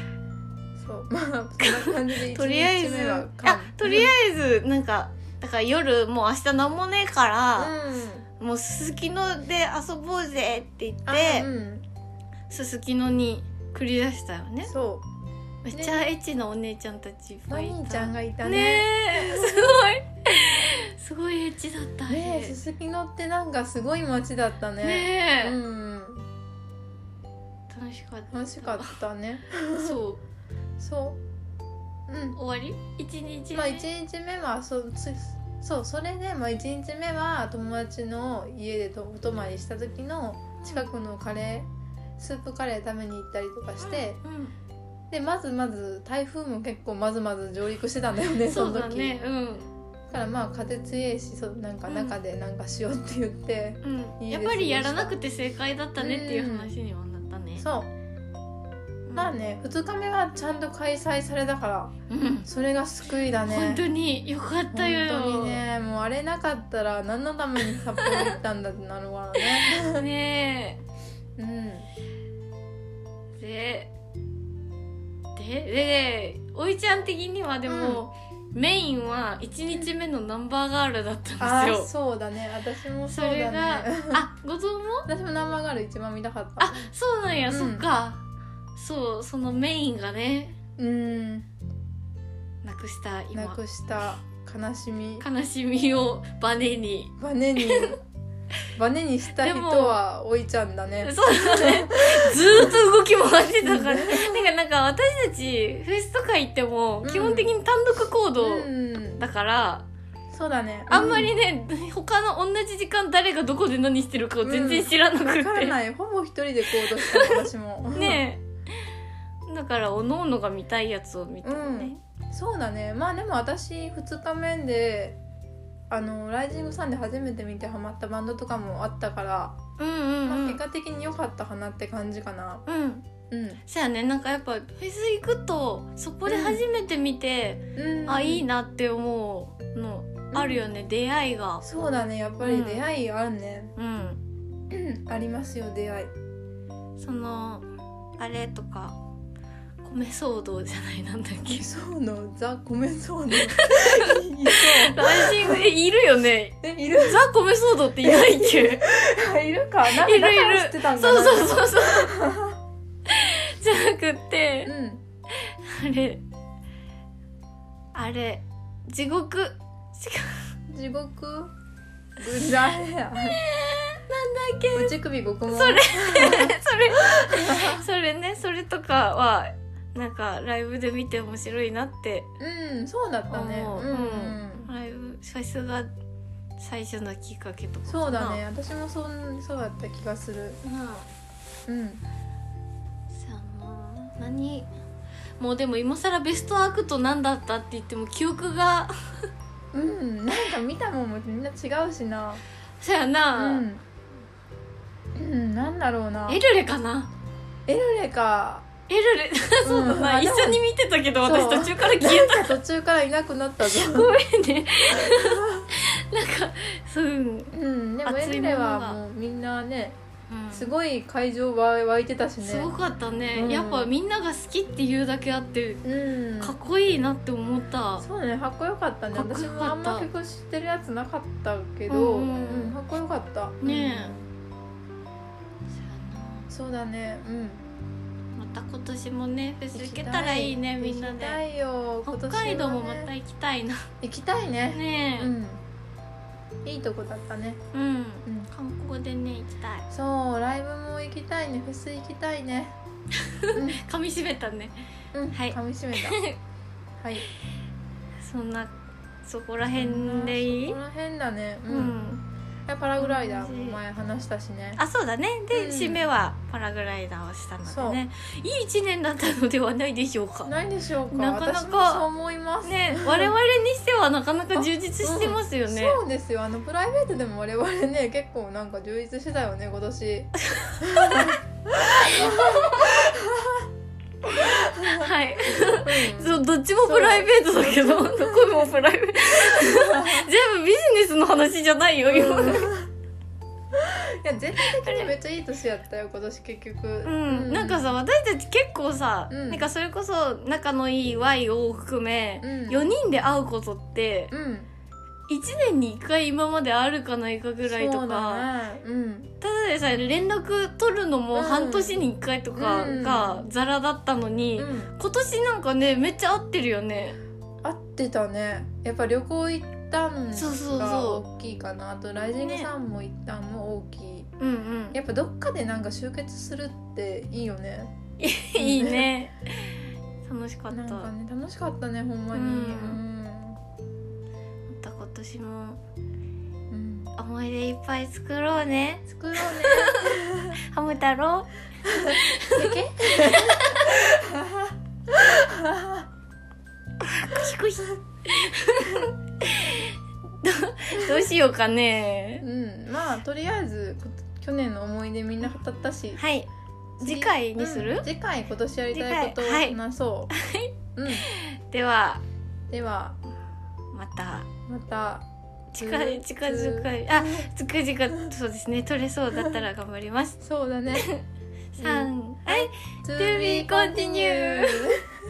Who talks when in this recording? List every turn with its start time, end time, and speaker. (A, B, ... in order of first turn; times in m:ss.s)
0:00.8-0:04.1 A
0:01.6-0:07.7 B
0:07.6-0:08.2 A
0:08.4-0:11.5 B
0:11.1-0:11.8 A
0:12.5-0:14.7 B
0:14.7-0:15.0 A
0:15.6-0:22.6 B
0:15.7-0:16.1 A
0:17.5-0:19.8 A
0:22.1-0:26.2 A
0:24.8-0:25.6 B
0:27.7-0:28.9 B
0:28.3-0:30.0 A
0:29.7-0:30.2 B
0:30.8-0:31.2 A
0:32.1-0:32.4 A
0:32.3-0:33.8 B
0:33.5-0:41.7 A
0:40.6-0:40.8 B
0:42.2-0:44.2 A
0:43.8-0:44.5 B
0:45.1-0:49.1 A
0:48.4-0:49.7 B
0:50.1-0:55.2 A
0:51.9-0:52.2 B
0:53.8-0:57.6 B
0:56.0-0:56.7 A
0:57.6-0:57.9 A
0:59.1-0:59.3 B
0:59.1-1:01.9 A
1:02.1-1:02.4 B
1:02.4-1:03.8 A
1:03.4-1:05.6 B
1:04.7-1:10.0 A
1:07.8-1:08.3 B
1:09.6-1:10.8 B
1:11.4-1:11.9 A
1:13.4-1:13.9 B
1:15.3-1:21.9 B
1:17.6-1:18.0 A
1:21.4-1:24.2 A
1:23.1-1:25.1 B
1:25.1-1:26.9 A
1:26.6-1:28.2 B
1:27.5-1:27.8 A
1:28.8-1:30.6 B
1:30.8-1:31.5 A
1:32.6-1:33.6 B
1:33.3-1:35.2 A
1:35.2-1:38.0 B
1:37.2-1:38.0 A
1:38.8-1:42.8 A
1:39.3-1:40.0 B
1:41.0-1:49.8 B
1:43.6-1:44.5 A
1:47.0-1:47.5 A
1:48.4-1:49.2 A
1:50.3-1:51.3 A
1:50.9-1:55.8 B
1:54.4-1:58.2 A
1:56.8-1:57.4 B
1:57.9-1:58.4 B
1:59.5-2:02.0 B
2:01.4-2:05.2 A
2:05.9-2:09.6 A
2:09.8-2:10.6 B
2:10.2-2:12.6 A
2:12.6-2:13.0 B
2:13.3-2:13.6 A
2:13.7-2:21.7 B
2:16.3-2:16.6 A
2:17.8-2:18.4 A
2:20.3-2:20.6 A
2:21.6-2:23.7 A
2:22.4-2:22.8 B
2:23.8-2:24.2 B
2:24.7-2:26.1 A
2:27.0-2:27.7 B
2:28.2-2:29.0 B
2:29.8-2:31.6 B
2:31.5-2:35.7 A
2:33.4-2:38.9 B
2:36.6-2:37.3 A
2:38.0-2:42.6 A
2:39.9-2:42.1 B
2:43.1-2:44.7 B
2:44.6-2:45.0 A
2:45.4-2:46.2 B
2:47.9-2:50.4 B
2:50.7-2:51.5 A
2:52.2-2:53.4 A
2:53.3-2:54.9 B
2:54.7-2:57.8 A
2:55.5-3:02.3 B
3:02.4-3:04.7 A
3:03.3-3:05.9 B
3:06.6-3:08.4 B
3:07.9-3:10.6 A
3:10.6-3:11.0 B
3:11.7-3:12.0 A
3:13.1-3:14.7 B
3:15.4-3:18.9 B
3:19.7-3:22.4 A
3:22.8-3:23.6 B
3:23.4-3:23.8 A
3:25.2-3:26.4 A
3:26.3-3:27.1 B
3:27.7-3:28.6 A
3:28.9-3:32.6 B
3:29.6-3:30.6 A
3:31.2-3:34.1 A
3:33.6-3:37.5 B
3:35.0-3:35.6 A
3:37.5-3:40.0 A
3:38.0-3:39.0 B
3:40.3-3:40.7 B
3:40.5-3:42.7 A
3:42.4-3:45.8 B
3:43.3-3:43.9 A
3:45.8-3:46.6 A
3:46.4-3:48.0 B
3:48.0-3:54.3 A
3:49.1-3:50.1 B
3:51.9-3:52.7 B
3:53.6-3:54.2 B
3:55.8-3:56.5 B
3:56.5-3:57.6 A
3:58.4-4:01.4 B
3:59.7-4:03.1 A
4:02.0-4:03.9 B
4:04.0-4:05.6 A
4:04.7-4:05.3 B
4:06.6-4:07.6 A
4:07.7-4:09.8 B
4:08.2-4:08.5 A
4:09.9-4:12.8 A
4:13.4-4:14.7 B
4:13.5-4:13.8 A
4:15.1-4:16.2 A
4:15.3-4:16.4 B
4:17.0-4:17.2 A
4:18.2-4:18.7 B
4:19.2-4:20.8 B
4:19.7-4:22.0 A
4:21.7-4:22.2 B
4:22.7-4:24.8 A
4:23.0-4:23.8 B
4:24.8-4:30.5 B
4:25.5-4:26.0 A
4:27.6-4:28.0 A
4:30.4-4:33.3 A
4:31.1-4:32.0 B
4:32.6-4:36.0 B
4:34.5-4:43.6 A
4:40.6-4:41.4 B
4:42.0-4:43.0 B
4:44.3-4:52.7 B
4:44.4-4:48.7 A
4:49.5-4:50.3 A
4:52.1-4:52.9 A
4:53.7-4:57.9 A
4:54.6-4:55.1 B
4:57.0-5:04.3 B
4:59.3-4:59.7 A
5:02.4-5:02.9 A
5:04.3-5:04.7 A
5:05.3-5:08.5 B
5:07.6-5:09.3 A
5:09.4-5:17.2 B
5:11.3-5:12.0 A
5:12.5-5:13.4 A
5:14.6-5:14.9 A
5:17.6-5:24.3 A
5:20.3-5:21.2 B
5:22.2-5:22.7 B
5:24.4-5:25.0 B
5:24.9-5:27.9 A
5:28.2-5:31.1 B
5:28.6-5:29.2 A
5:30.7-5:33.6 A
5:32.3-5:33.0 B
5:34.7-5:35.8 B
5:36.7-5:37.1 A
5:37.2-5:44.0 B
5:39.1-5:40.6 A
5:41.9-5:46.0 A
5:47.0-5:52.4 B
5:51.0-5:51.2 A
5:52.4-5:56.2 A
5:56.2-5:56.5 B
5:57.0-6:00.3 A
5:57.0-5:58.0 B
5:58.9-5:59.8 B
6:00.3-6:02.2 B
6:01.0-6:01.2 A
6:02.7-6:03.2 A
6:03.9-6:04.5 B
6:04.7-6:05.2 A
6:05.7-6:10.4 B
6:05.8-6:07.5 A
6:10.4-6:11.1 A
6:10.9-6:11.2 B
6:11.7-6:15.0 B
6:11.8-6:15.1 A